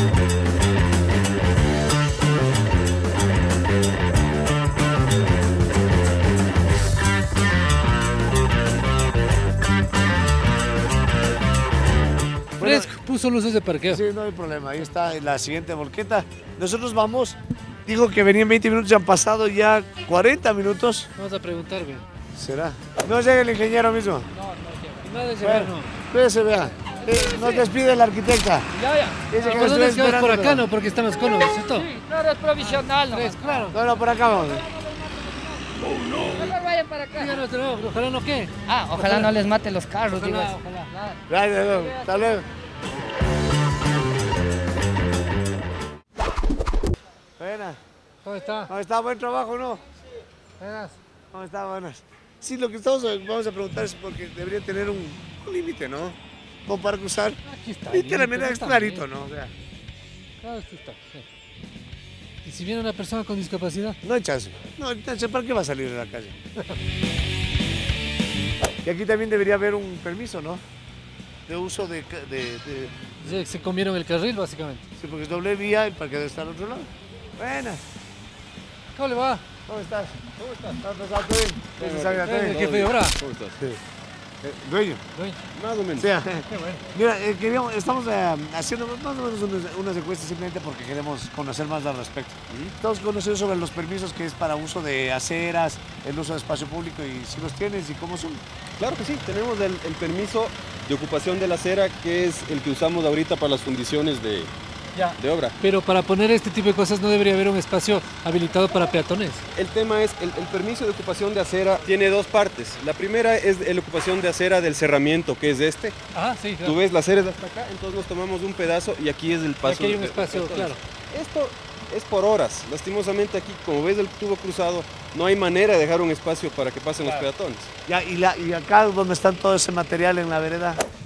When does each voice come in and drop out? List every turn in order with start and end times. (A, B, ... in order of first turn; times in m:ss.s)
0:12.6-0:12.9 A
0:12.6-0:14.0 B
0:13.8-0:21.1 A
0:21.2-0:22.0 B
0:22.3-0:24.3 A
0:24.4-0:25.0 C
0:25.0-0:25.9 B
0:25.4-0:28.7 A
0:27.0-0:27.6 C
0:28.7-0:29.4 C
0:29.3-0:30.6 A
0:29.4-0:31.9 B
0:31.6-0:33.6 C
0:32.6-0:33.8 B
0:33.7-0:34.7 A
0:36.1-0:36.4 B
0:36.3-0:37.4 C
0:37.1-0:39.3 B
0:38.7-0:42.1 C
0:40.1-0:40.9 B
0:41.3-0:42.4 A
0:47.4-0:47.8 A
0:48.2-0:48.7 B
0:48.7-0:49.8 A
0:50.6-0:51.0 B
0:51.3-0:59.5 A
0:57.4-0:59.0 B
1:00.4-1:01.2 B
1:02.4-1:04.0 B
1:04.0-1:06.4 A
1:08.8-1:10.6 A
1:11.5-1:13.3 A
1:13.2-1:14.8 B
1:15.0-1:17.8 A
1:18.9-1:19.4 B
1:19.7-1:20.2 A
1:20.4-1:20.7 D
1:20.8-1:22.6 A
1:21.8-1:23.6 D
1:22.2-1:23.2 B
1:24.4-1:25.0 A
1:25.1-1:25.4 B
1:25.5-1:26.1 D
1:26.0-1:38.4 A
1:26.5-1:26.8 B
1:32.5-1:32.7 D
1:38.8-1:44.5 D
1:45.0-1:49.4 B
1:45.1-1:45.6 D
1:49.5-1:56.0 D
1:56.1-1:56.8 B
1:56.6-2:07.7 D
1:59.6-2:00.8 B
2:07.8-2:10.8 A